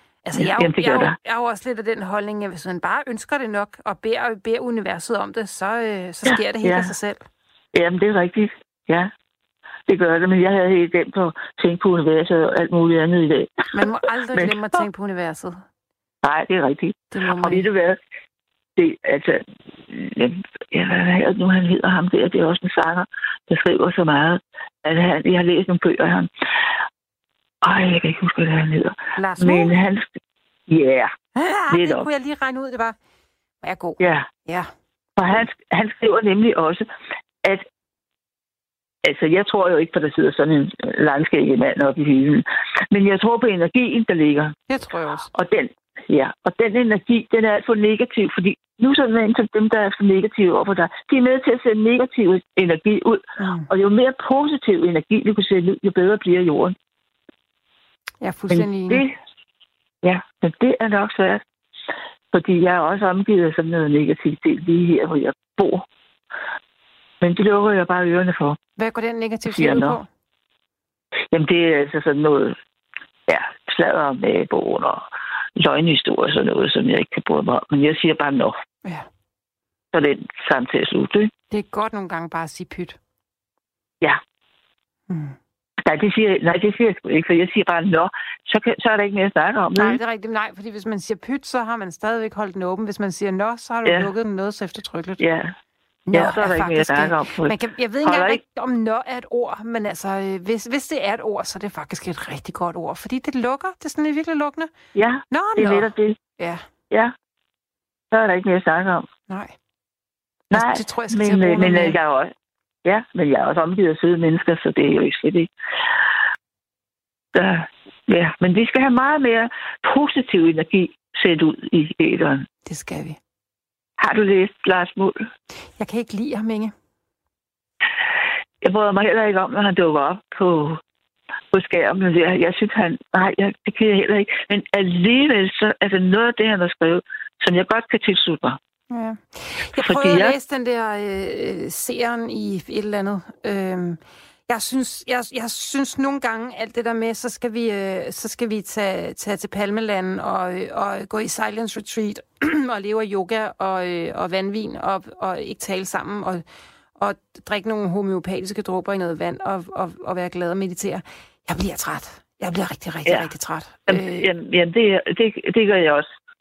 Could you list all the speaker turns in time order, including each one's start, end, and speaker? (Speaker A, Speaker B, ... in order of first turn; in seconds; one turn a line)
Speaker A: 0.2-7.2
Speaker B: 0.4-1.1
Speaker B: 6.3-6.9
Speaker B: 7.7-9.1
Speaker B: 9.9-13.7
Speaker A: 13.7-15.6
Speaker B: 16.2-18.0
Speaker A: 17.1-17.7
Speaker B: 18.8-26.3
Speaker B: 27.6-30.1
Speaker A: 29.2-29.8
Speaker B: 30.7-31.1
Speaker A: 31.4-33.0
Speaker B: 31.7-32.1
Speaker A: 33.6-34.7
Speaker B: 34.0-34.3
Speaker B: 35.2-36.9
Speaker B: 39.0-44.6
Speaker A: 44.7-45.3
Speaker B: 45.3-56.8
Speaker A: 53.4-53.7
Speaker A: 58.2-59.1
Speaker B: 58.5-59.1
Speaker B: 60.0-61.4
Speaker B: 62.3-65.8
Speaker B: 67.2-68.6
Speaker A: 68.8-70.1
Speaker B: 69.5-70.0
Speaker B: 71.3-72.6
Speaker B: 73.3-75.0
Speaker B: 75.6-78.6
Speaker B: 79.9-81.3
Speaker A: 81.5-83.0
Speaker A: 85.1-85.4
Speaker B: 85.8-90.0
Speaker A: 89.8-95.2
Speaker B: 95.2-95.5
Speaker A: 96.1-104.7
Speaker B: 96.1-98.4
Speaker B: 105.0-106.2
Speaker A: 105.3-106.6
Speaker B: 108.1-109.1
Speaker A: 109.3-109.5
Speaker B: 110.5-112.3
Speaker A: 110.5-112.0
Speaker B: 112.8-115.5
Speaker B: 117.3-122.5
Speaker A: 122.7-123.2
Speaker B: 124.0-125.2
Speaker A: 125.8-126.7
Speaker B: 128.6-130.8
Speaker B: 131.5-138.6
Speaker A: 138.9-156.4
Speaker B: 139.8-140.3
Speaker A: 157.0-164.3
Speaker B: 163.9-166.1